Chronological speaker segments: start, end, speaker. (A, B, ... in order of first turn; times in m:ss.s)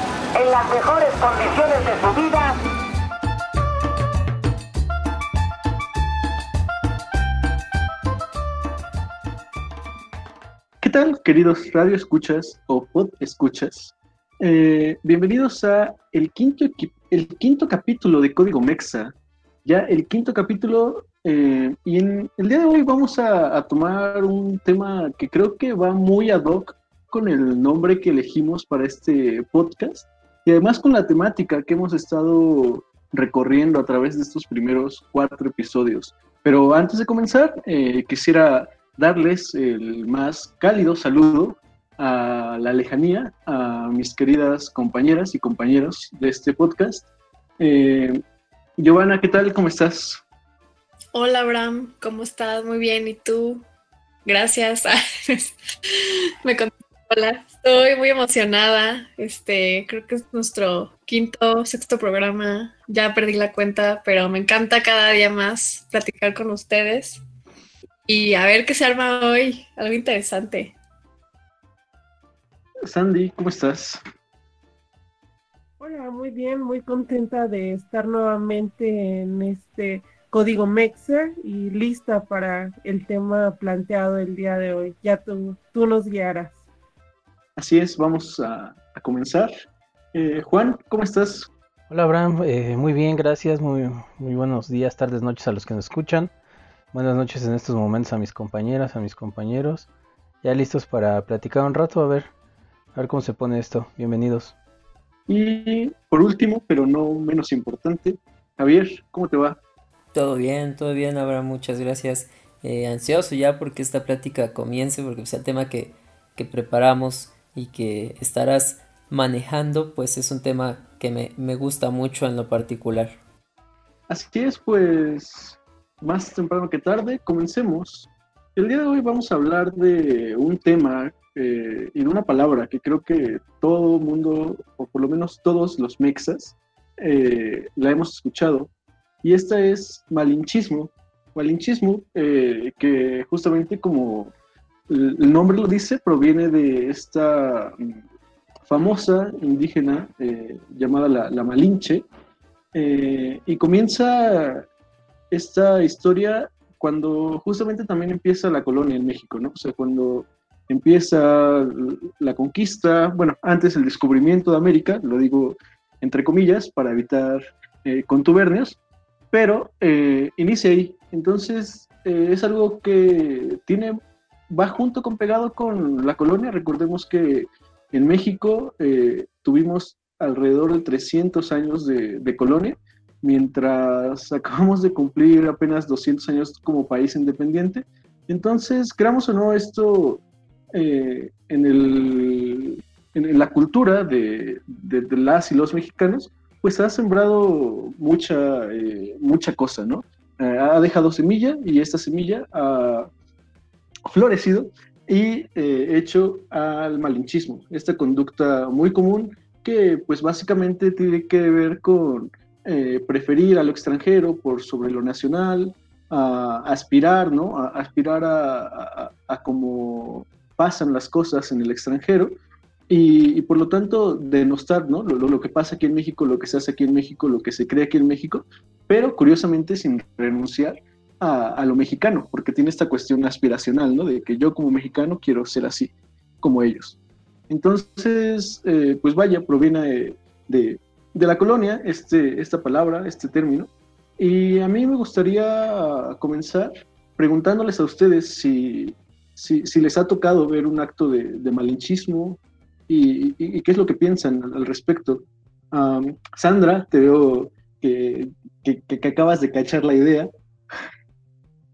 0:00.4-0:02.6 A
0:10.8-0:19.1 B
0:19.6-0:47.0 B
0:47.6-0:48.2 B
0:48.8-0:50.2 B
0:51.1-0:53.6 C
0:54.2-1:07.2 C
1:08.1-1:10.8 C
1:12.9-1:14.0 B
1:15.8-1:26.6 D
1:27.6-1:29.5 B
1:30.1-1:31.5 B
1:31.9-1:36.3 E
1:36.9-1:39.9 E
1:40.4-1:42.3 E
1:43.0-1:44.6 E
1:45.3-1:49.6 B
1:50.1-2:03.2 F
2:04.1-2:18.7 B
2:19.2-2:24.3 B
2:24.9-2:28.0 B
2:28.7-2:32.0 B
2:32.7-2:34.7 B
2:35.3-2:48.8 B
2:49.3-3:10.2 B
3:10.7-3:23.1 B
3:24.1-3:42.4 B
3:42.9-3:57.0 B
3:57.5-4:20.3 B